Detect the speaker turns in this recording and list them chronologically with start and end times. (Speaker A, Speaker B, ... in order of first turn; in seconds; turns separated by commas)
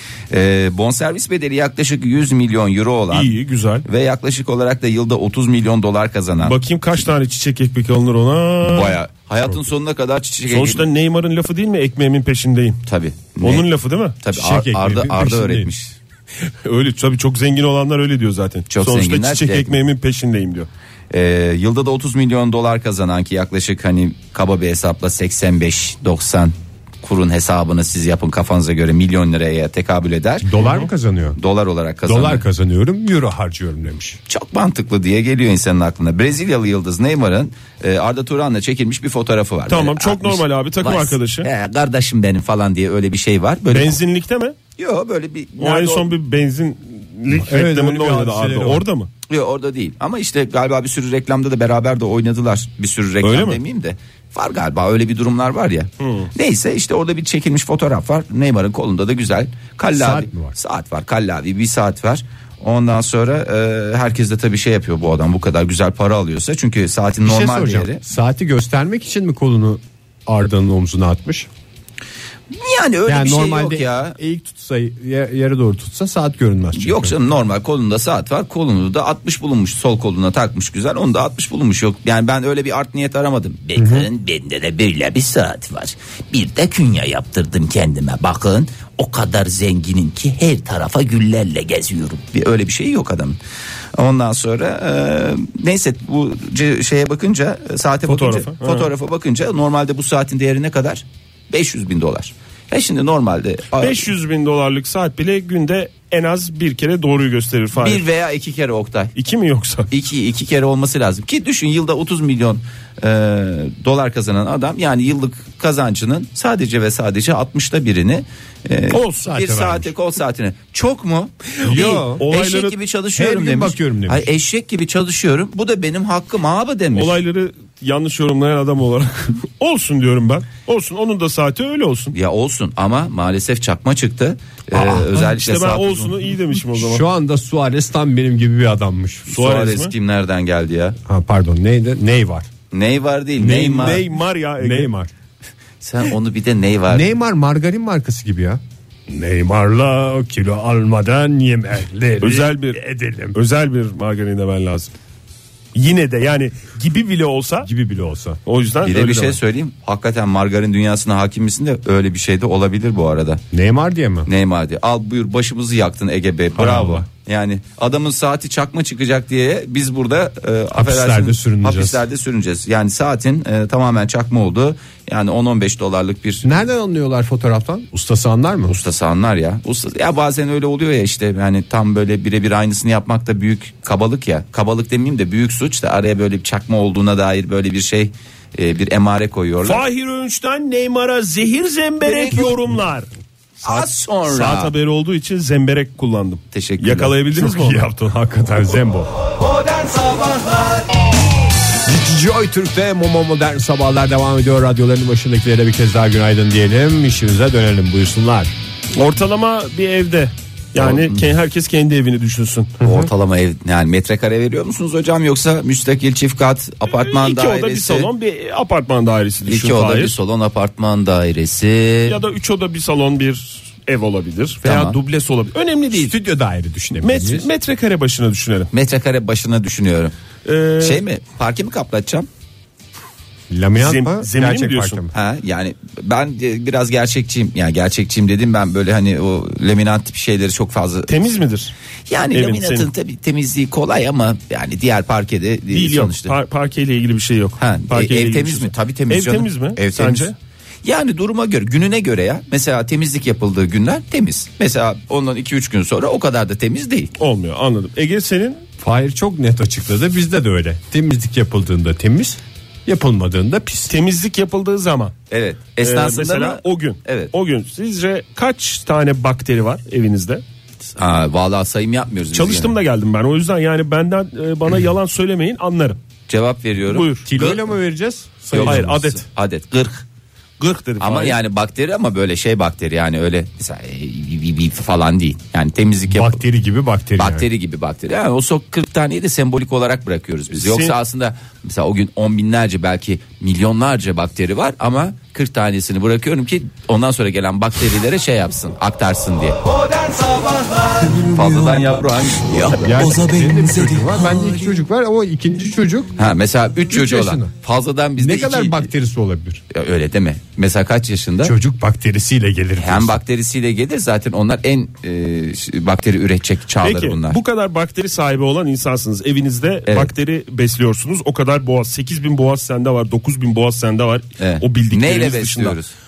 Speaker A: 0.3-6.6, Speaker B: 3.1-3.9, Speaker B: 6.4-9.0, Speaker A: 8.6-10.8, Speaker B: 10.5-12.8, Speaker A: 12.9-13.7, Speaker B: 13.4-14.2, Speaker A: 14.2-15.9, Speaker C: 14.3-15.7, Speaker B: 16.4-20.7, Speaker A: 18.7-19.7, Speaker A: 21.1-30.5, Speaker C: 30.4-31.4, Speaker A: 31.4-32.4, Speaker C: 32.0-34.2, Speaker A: 34.3-44.0, Speaker B: 39.7-41.5, Speaker B: 43.7-44.5, Speaker A: 44.8-46.1, Speaker B: 45.6-49.1, Speaker C: 47.3-48.8, Speaker A: 49.3-68.0, Speaker B: 53.2-53.6, Speaker B: 56.0-56.3, Speaker C: 59.9-60.5, Speaker C: 67.2-71.5, Speaker A: 72.5-74.2, Speaker C: 73.1-77.2, Speaker A: 76.8-93.4, Speaker C: 83.8-84.1, Speaker A: 93.9-104.1, Speaker B: 98.1-98.9, Speaker B: 103.8-108.0, Speaker A: 107.7-109.1, Speaker B: 109.1-109.9, Speaker A: 109.9-127.1, Speaker B: 118.9-119.3, Speaker C: 119.2-119.9, Speaker C: 121.6-122.2, Speaker B: 121.6-122.8, Speaker C: 123.2-124.3, Speaker B: 126.9-132.1, Speaker A: 132.1-136.2, Speaker B: 134.7-137.0, Speaker C: 136.7-139.3, Speaker A: 139.3-140.9, Speaker B: 139.3-139.9, Speaker C: 141.1-142.5, Speaker A: 142.7-144.0, Speaker C: 143.4-144.1, Speaker B: 143.7-144.9, Speaker C: 144.6-145.1, Speaker A: 145.8-147.1, Speaker C: 146.9-153.4, Speaker B: 152.2-152.8, Speaker B: 153.3-154.9, Speaker B: 155.7-157.7, Speaker C: 157.6-158.4, Speaker B: 158.4-159.4, Speaker A: 158.8-163.4, Speaker C: 163.5-164.3, Speaker A: 164.3-176.5, Speaker C: 166.6-167.1, Speaker C: 170.7-172.0, Speaker C: 176.4-178.8, Speaker A: 178.7-189.8, Speaker B: 189.6-193.1, Speaker A: 192.0-192.5, Speaker B: 193.6-197.9, Speaker A: 193.6-194.7, Speaker A: 196.5-197.2, Speaker C: 197.3-199.1, Speaker C: 201.8-208.5, Speaker B: 208.9-212.8, Speaker A: 210.8-211.2, Speaker A: 212.8-218.1, Speaker C: 212.8-213.1, Speaker B: 216.9-220.1, Speaker A: 219.4-222.2, Speaker B: 222.1-226.1, Speaker A: 224.6-225.0, Speaker C: 225.9-227.5, Speaker B: 227.0-228.7, Speaker A: 228.7-230.1, Speaker B: 230.4-231.0, Speaker A: 230.8-232.3, Speaker C: 233.5-235.1, Speaker B: 233.8-235.0, Speaker A: 235.1-241.2, Speaker B: 241.1-241.7, Speaker A: 242.1-246.3, Speaker B: 242.3-242.9, Speaker B: 245.7-250.3, Speaker A: 247.6-250.3, Speaker A: 250.8-257.1, Speaker B: 257.2-258.6, Speaker C: 258.8-263.9, Speaker B: 263.9-265.1, Speaker A: 265.3-267.3, Speaker B: 265.8-270.4, Speaker A: 271.0-272.7, Speaker B: 272.3-276.0, Speaker A: 276.3-277.7, Speaker B: 276.9-277.3, Speaker C: 277.2-279.1, Speaker A: 278.5-280.0, Speaker B: 278.6-279.2, Speaker B: 280.6-281.4, Speaker A: 281.0-286.4, Speaker C: 286.1-287.4, Speaker A: 287.2-304.1, Speaker B: 290.5-291.0, Speaker C: 302.8-306.1, Speaker A: 306.2-308.9, Speaker C: 306.9-307.5, Speaker C: 308.2-309.6, Speaker A: 309.7-311.5, Speaker C: 311.4-313.2, Speaker A: 312.8-317.4, Speaker B: 316.8-325.8, Speaker A: 324.4-325.9